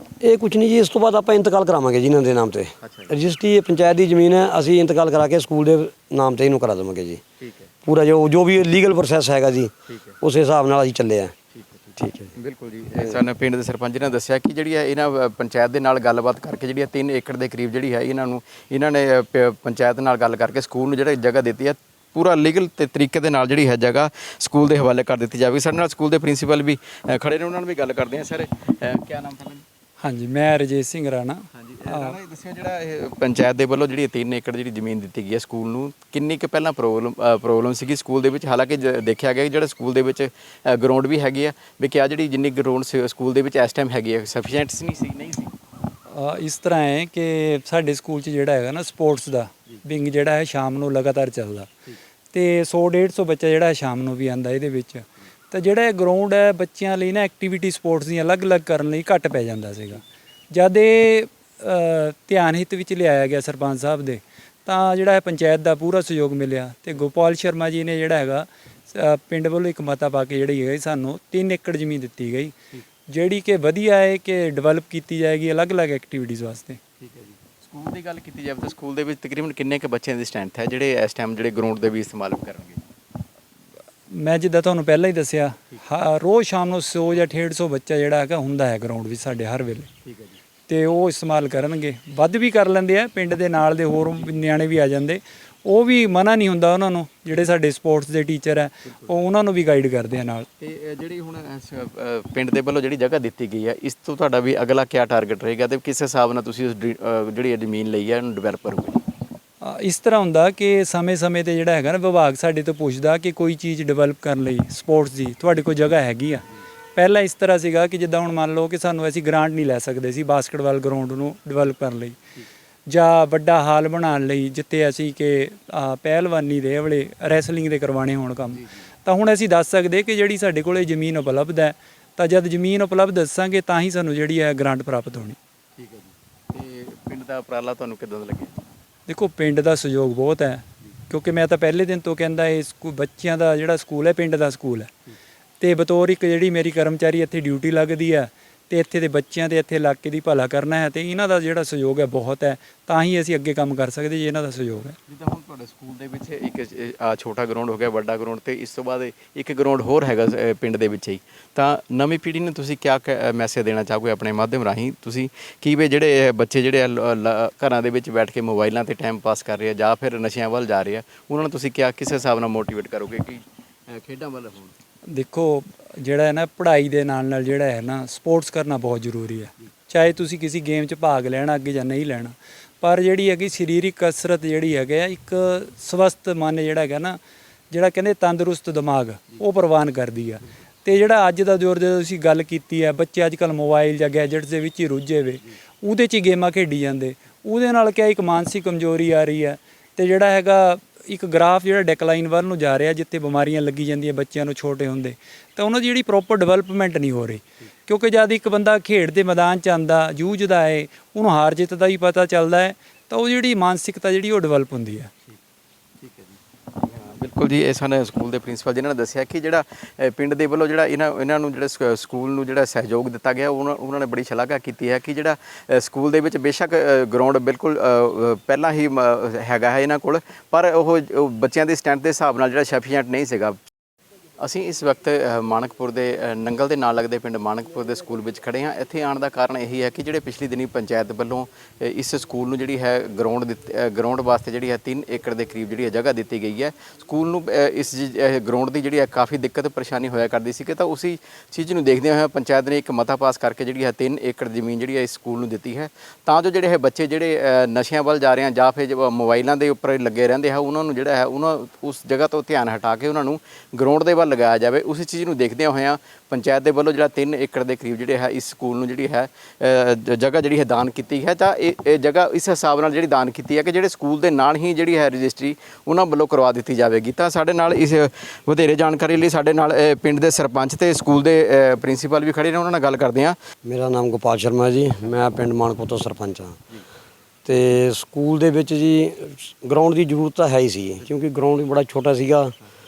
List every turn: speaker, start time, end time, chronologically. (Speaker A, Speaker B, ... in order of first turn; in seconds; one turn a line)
Speaker A: 0.2-7.2
Speaker B: 2.8-3.1
Speaker B: 7.4-7.7
Speaker A: 7.8-11.3
Speaker B: 9.9-10.2
Speaker B: 11.5-29.6
Speaker A: 12.0-12.3
Speaker C: 30.0-32.1
Speaker B: 31.5-45.5
Speaker C: 46.1-51.7
Speaker C: 52.3-72.5
Speaker C: 73.1-76.8
Speaker B: 77.0-82.8
Speaker C: 84.1-89.9
Speaker B: 90.0-90.4
Speaker C: 90.7-100.5
Speaker B: 98.8-99.1
Speaker B: 100.6-109.0
Speaker C: 109.6-116.4
Speaker C: 117.0-122.2
Speaker C: 122.9-135.4
Speaker B: 128.5-128.8
Speaker B: 135.8-138.6
Speaker C: 139.1-144.9
Speaker C: 145.6-155.0
Speaker B: 155.1-174.7
Speaker C: 175.1-187.2
Speaker C: 187.7-215.1
Speaker B: 216.0-233.6
Speaker B: 234.4-283.4
Speaker A: 283.6-286.6
Speaker A: 287.4-292.5